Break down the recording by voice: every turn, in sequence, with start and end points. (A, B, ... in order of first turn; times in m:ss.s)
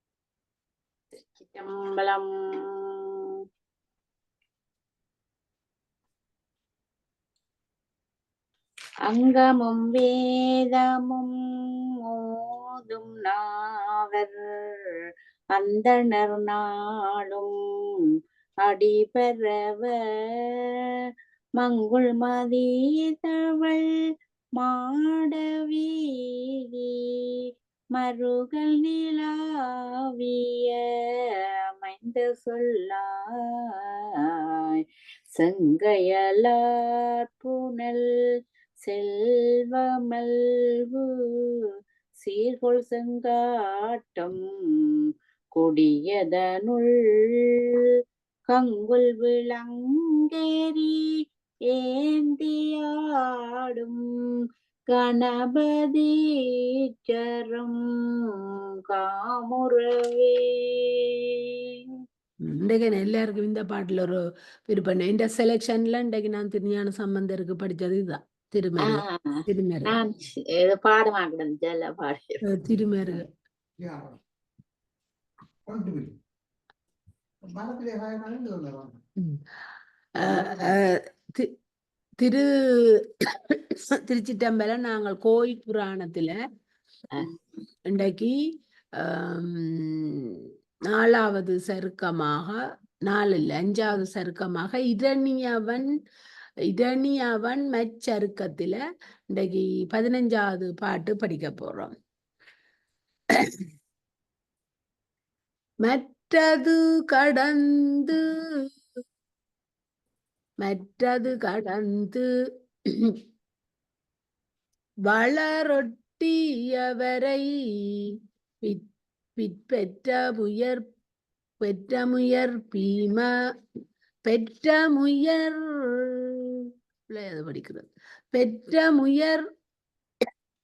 0:01.2-0:03.2 A
0:09.1-0:11.3 A
0:12.0-0:13.4 A
0:14.0-0:14.8 A
0:15.6-0:17.5 A
0:18.7-0:20.7 A
0:21.6-0:23.8 A
0:24.6-0:27.0 A
0:28.0-0:31.2 A
0:31.8-0:34.0 A
0:35.4-0:38.1 A
0:38.8-0:41.5 A
0:42.2-0:44.4 A
0:45.6-0:47.5 A
0:48.5-0:51.0 A
0:51.7-0:53.0 A
0:53.6-0:54.0 A
0:54.9-0:56.1 A
0:57.1-0:57.8 A
0:58.9-1:00.9 A
1:02.4-1:09.9 B
1:08.8-1:12.4 A
1:12.4-1:13.2 B
1:13.8-1:14.1 C
1:15.7-1:16.1 C
1:17.4-1:19.0 C
1:20.2-1:21.5 B
1:20.4-1:20.7 C
1:22.2-1:26.4 B
1:27.9-1:28.4 B
1:29.0-1:35.9 B
1:36.7-1:38.8 B
1:39.3-1:41.9 B
1:43.3-1:43.6 B
1:45.8-1:48.2 B
1:50.6-1:52.2 B
1:52.9-1:53.2 B
1:55.1-1:58.9 B
1:59.4-2:00.8 B
2:01.6-2:03.3 B
2:04.3-2:06.6 B
2:07.1-2:09.4 B